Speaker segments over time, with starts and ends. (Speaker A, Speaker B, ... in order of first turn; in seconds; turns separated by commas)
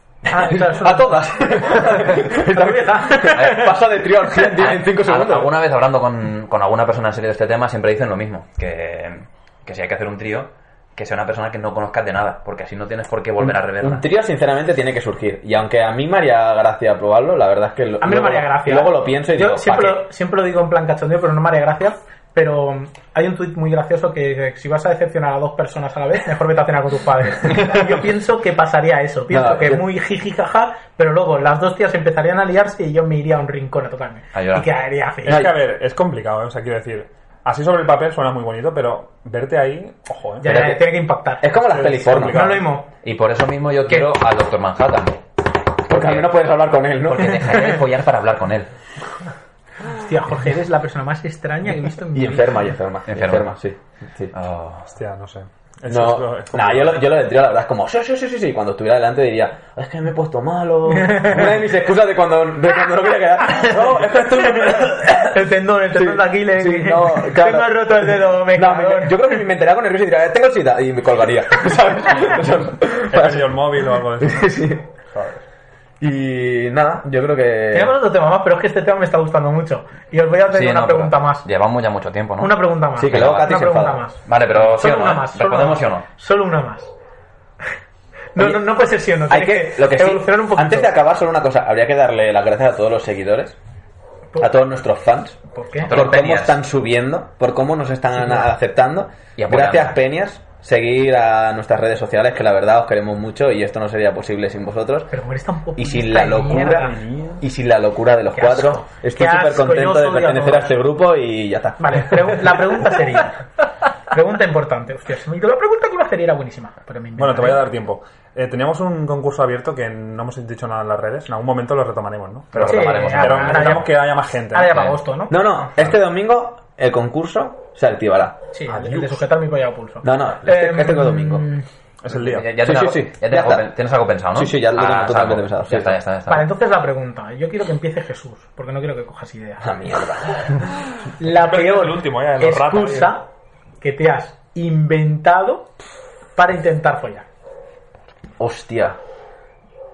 Speaker A: 0.3-3.7, Speaker B: 0.3-5.6, Speaker C: 3.4-3.8, Speaker C: 4.4-14.0, Speaker B: 13.4-20.1, Speaker A: 18.0-35.5, Speaker B: 29.3-29.9, Speaker C: 34.3-34.7, Speaker D: 35.2-40.7, Speaker B: 35.3-35.5, Speaker A: 40.4-42.9, Speaker B: 40.4-40.8, Speaker B: 41.4-42.6, Speaker D: 41.9-42.6, Speaker C: 43.0-45.2, Speaker C: 45.9-46.5, Speaker B: 45.9-47.6, Speaker C: 47.0-48.7, Speaker A: 49.9-52.7, Speaker B: 52.1-54.3, Speaker C: 53.1-53.5, Speaker C: 54.3-54.9, Speaker D: 54.9-57.0, Speaker B: 55.9-65.4, Speaker A: 60.9-61.6, Speaker A: 63.4-69.4, Speaker B: 65.9-74.8, Speaker D: 73.1-75.4, Speaker B: 76.0-78.0, Speaker A: 77.7-81.5, Speaker C: 80.5-83.6, Speaker A: 82.4-86.9, Speaker B: 83.0-84.0, Speaker C: 84.2-86.0, Speaker A: 88.3-90.9, Speaker B: 88.3-93.5, Speaker B: 94.4-95.4, Speaker A: 95.5-95.9, Speaker C: 95.8-96.6, Speaker B: 95.9-105.1, Speaker A: 98.2-98.5, Speaker C: 99.4-100.0, Speaker A: 105.1-107.0, Speaker B: 105.8-113.2, Speaker D: 106.5-107.4, Speaker A: 108.3-110.7, Speaker A: 111.8-113.4, Speaker A: 114.1-117.6, Speaker D: 117.2-124.9, Speaker C: 122.5-123.9, Speaker A: 122.6-125.4, Speaker C: 124.6-124.9, Speaker B: 125.3-128.4, Speaker A: 128.5-131.6, Speaker D: 128.7-129.2, Speaker B: 130.0-131.5, Speaker D: 132.0-132.5, Speaker C: 132.1-136.5, Speaker B: 132.6-133.7, Speaker B: 134.3-136.0, Speaker A: 136.3-139.7, Speaker B: 139.6-140.8, Speaker A: 141.2-143.3, Speaker D: 141.2-143.1, Speaker A: 143.8-145.7, Speaker A: 146.3-147.2, Speaker B: 148.4-149.0